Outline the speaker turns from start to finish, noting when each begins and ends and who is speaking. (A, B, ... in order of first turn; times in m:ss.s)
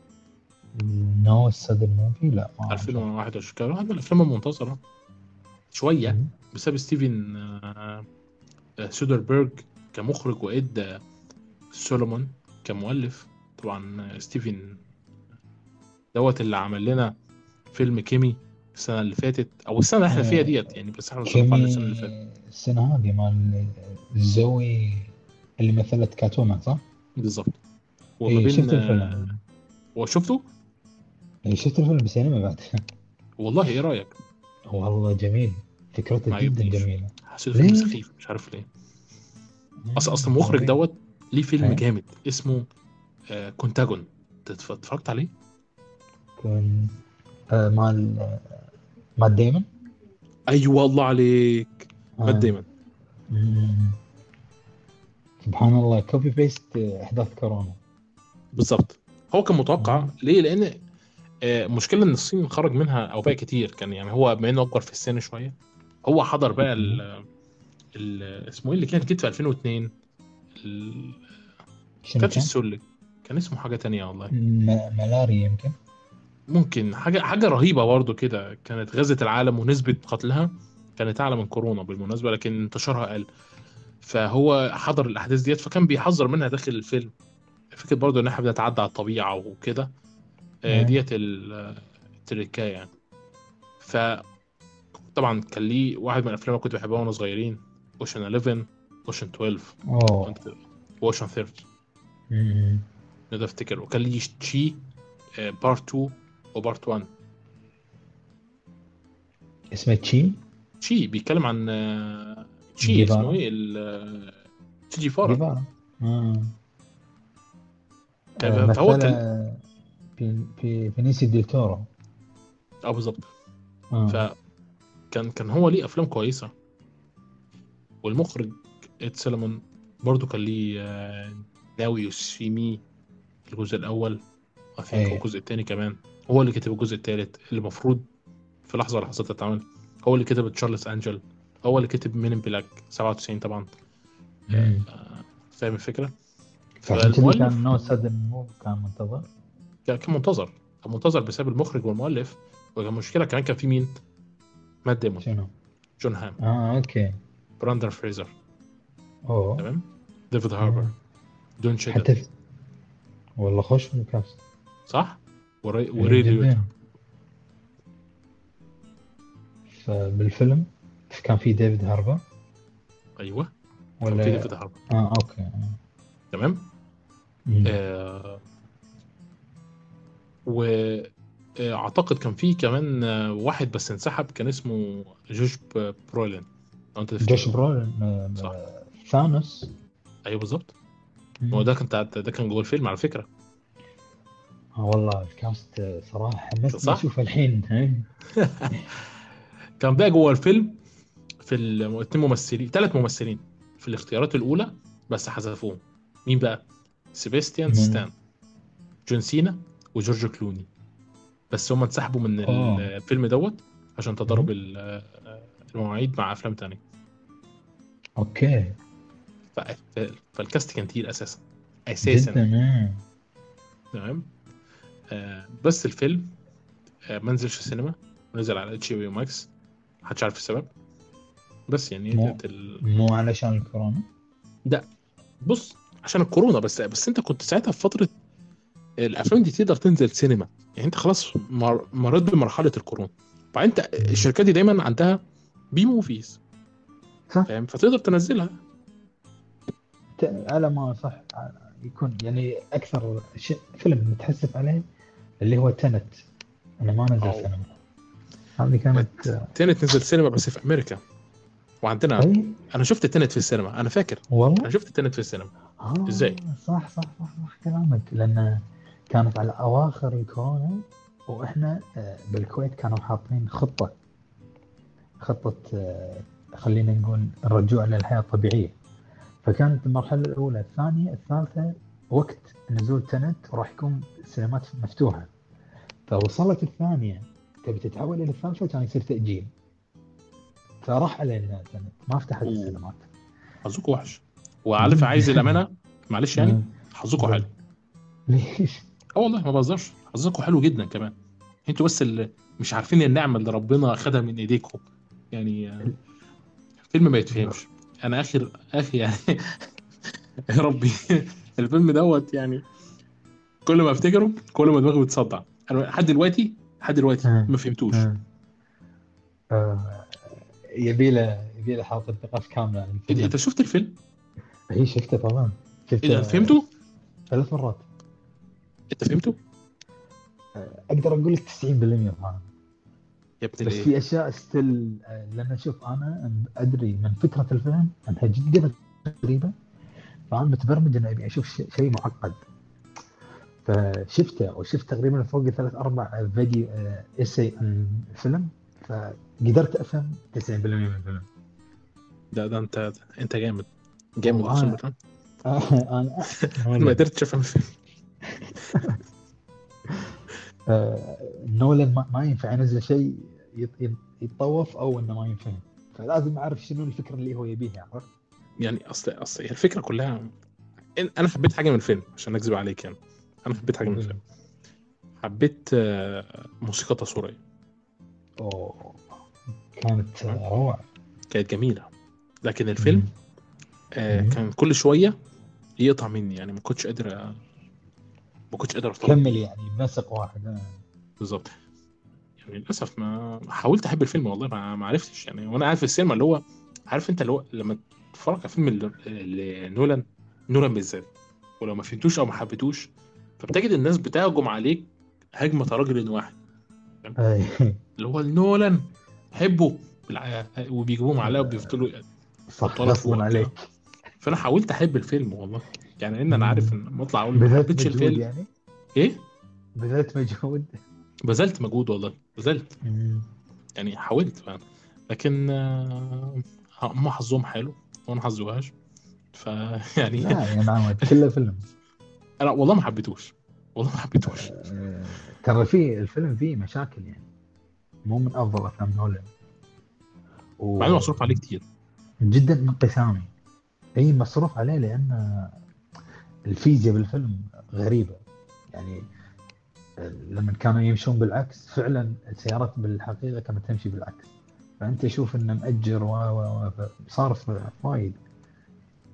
0:00.8-0:03.1 A
0:02.7-0:04.8 B
0:05.7-0:08.0 B
0:06.0-0:06.3 A
0:08.8-0:11.0 B
0:11.7-0:14.8 B
0:16.1-0:17.1 B
0:17.7-0:22.1 B
0:20.1-0:20.6 A
0:21.2-0:26.8 A
0:27.2-0:27.6 B
0:28.2-0:29.3 B
0:28.3-0:29.4 A
0:30.0-0:30.4 B
0:31.4-0:32.7 A
0:33.4-0:34.1 B
0:34.7-0:38.0 A
0:36.3-0:38.6 B
0:39.8-0:40.8 A
0:40.0-0:42.6 B
0:41.6-0:41.8 A
0:43.3-0:45.3 B
0:46.4-0:46.9 A
0:47.5-0:48.6 A
0:49.2-0:49.6 A
0:50.5-0:52.6 B
0:52.2-0:52.5 A
0:53.3-0:54.0 A
0:55.4-0:57.8 A
0:58.5-1:00.8 B
0:59.8-1:00.1 A
1:01.4-1:07.2 B
1:06.7-1:07.0 A
1:08.0-1:09.9 B
1:10.6-1:11.2 B
1:12.0-1:12.5 A
1:12.2-1:14.3 B
1:14.3-1:15.7 A
1:16.5-1:23.3 B
1:24.0-1:27.1 B
1:27.7-1:29.9 B
1:30.7-1:32.9 B
1:30.7-1:31.0 A
1:33.8-1:34.2 B
1:35.1-1:41.6 B
1:39.9-1:40.4 A
1:42.3-1:42.8 A
1:43.3-1:44.8 B
1:45.3-1:47.1 B
1:49.7-1:50.4 A
1:50.8-1:54.4 B
1:52.8-1:53.4 A
1:54.9-1:55.4 B
1:55.2-1:56.5 A
1:58.4-1:59.6 A
1:58.4-1:59.2 B
2:00.2-2:01.9 A
2:02.8-2:03.3 B
2:03.9-2:04.2 A
2:04.1-2:04.3 B
2:05.1-2:06.5 B
2:08.0-2:12.8 B
2:13.5-2:14.2 B
2:14.8-2:18.0 B
2:14.9-2:15.2 A
2:18.7-2:23.7 B
2:24.5-2:26.1 B
2:24.5-2:24.8 A
2:26.8-2:27.6 B
2:26.9-2:29.3 A
2:29.8-2:34.0 B
2:34.8-2:35.2 B
2:35.2-2:35.5 A
2:36.0-2:36.4 B
2:36.4-2:37.1 A
2:37.6-2:38.3 B
2:39.3-2:39.7 A
2:39.6-2:40.9 B
2:40.6-2:40.9 A
2:41.6-2:42.1 B
2:41.9-2:42.3 A
2:43.4-2:44.4 A
2:44.9-2:46.6 B
2:46.0-2:46.6 A
2:49.7-2:52.2 A
2:53.2-2:53.5 B
2:54.0-2:55.8 A
2:54.1-2:54.8 B
2:56.3-2:56.7 B
2:57.5-2:57.8 A
2:57.6-2:58.4 B
3:00.5-3:07.5 B
3:07.2-3:09.7 A
3:10.2-3:10.7 B
3:11.4-3:11.7 A
3:11.5-3:13.3 B
3:14.8-3:18.1 A
3:16.7-3:17.0 B
3:18.4-3:18.8 B
3:19.8-3:20.8 B
3:21.4-3:28.1 B
3:27.7-3:28.0 A
3:29.0-3:30.7 B
3:31.5-3:36.8 B
3:32.4-3:32.9 A
3:38.2-3:38.7 A
3:39.5-3:42.4 B
3:42.0-3:43.0 A
3:43.9-3:44.3 B
3:45.1-3:46.4 B
3:47.1-3:49.5 B
3:50.0-3:50.7 B
3:51.7-3:52.8 B
3:52.1-3:54.0 A
3:55.4-3:58.1 B
3:59.0-4:05.2 B
4:04.0-4:04.3 A
4:05.7-4:06.4 B
4:07.5-4:08.6 B
4:10.2-4:14.8 A
4:15.4-4:16.2 A
4:16.8-4:17.7 A
4:17.2-4:17.5 B
4:18.6-4:19.3 A
4:18.9-4:21.0 B
4:21.8-4:25.5 B
4:22.2-4:22.5 A
4:24.3-4:24.7 A
4:25.8-4:33.9 A
4:26.1-4:26.4 B
4:35.2-4:38.7 A
4:39.4-4:45.3 A
4:46.1-4:49.5 A
4:50.8-4:53.1 A
4:52.4-4:52.8 B
4:53.6-4:57.5 B
4:54.8-4:55.6 A
4:56.4-4:57.4 A
4:58.3-4:58.8 A
4:59.2-5:01.1 B
5:01.6-5:04.8 B
5:05.3-5:05.9 B
5:06.9-5:09.7 B
5:07.3-5:07.6 A
5:10.5-5:12.6 B
5:13.6-5:18.1 B
5:17.2-5:18.2 A
5:19.5-5:23.3 A
5:23.1-5:24.0 B
5:24.7-5:26.6 A
5:26.0-5:26.6 B
5:27.3-5:27.8 A
5:28.9-5:29.4 B
5:30.6-5:32.5 A
5:33.4-5:33.9 B
5:33.6-5:39.5 A
5:40.3-5:42.4 A
5:43.6-5:51.3 A
5:52.3-5:54.9 B
5:54.2-5:54.8 A
5:55.4-5:57.0 A
5:56.5-5:57.7 B
5:58.3-5:59.0 A
6:00.7-6:08.1 A
6:08.6-6:10.3 B
6:11.0-6:14.2 B
6:13.8-6:14.2 A
6:15.2-6:17.4 B
6:18.4-6:19.1 A
6:19.7-6:20.8 A
6:21.3-6:21.9 B
6:22.4-6:23.1 B
6:22.8-6:23.1 A
6:24.0-6:25.2 B
6:24.1-6:24.4 A
6:25.8-6:27.4 B
6:28.5-6:29.3 B
6:29.0-6:30.8 A
6:31.2-6:31.5 B
6:32.4-6:41.1 B
6:41.6-6:46.4 B
6:47.2-6:47.8 A
6:48.0-6:52.1 B
6:51.2-6:51.7 A
6:52.5-6:53.6 A
6:52.6-6:53.5 B
6:54.2-6:58.2 B
6:56.3-6:56.8 A
6:57.3-6:58.5 A
6:59.0-6:59.2 B
6:59.8-7:00.7 A
7:01.2-7:02.7 B
7:02.8-7:03.3 A
7:03.8-7:08.7 B
7:09.3-7:11.1 B
7:10.2-7:11.6 A
7:12.4-7:14.5 B
7:14.2-7:17.3 A
7:18.0-7:19.3 A
7:20.6-7:21.4 A
7:20.8-7:21.6 B
7:22.2-7:23.3 A
7:24.0-7:25.6 A
7:26.5-7:28.2 A
7:28.7-7:29.0 A
7:30.0-7:38.2 A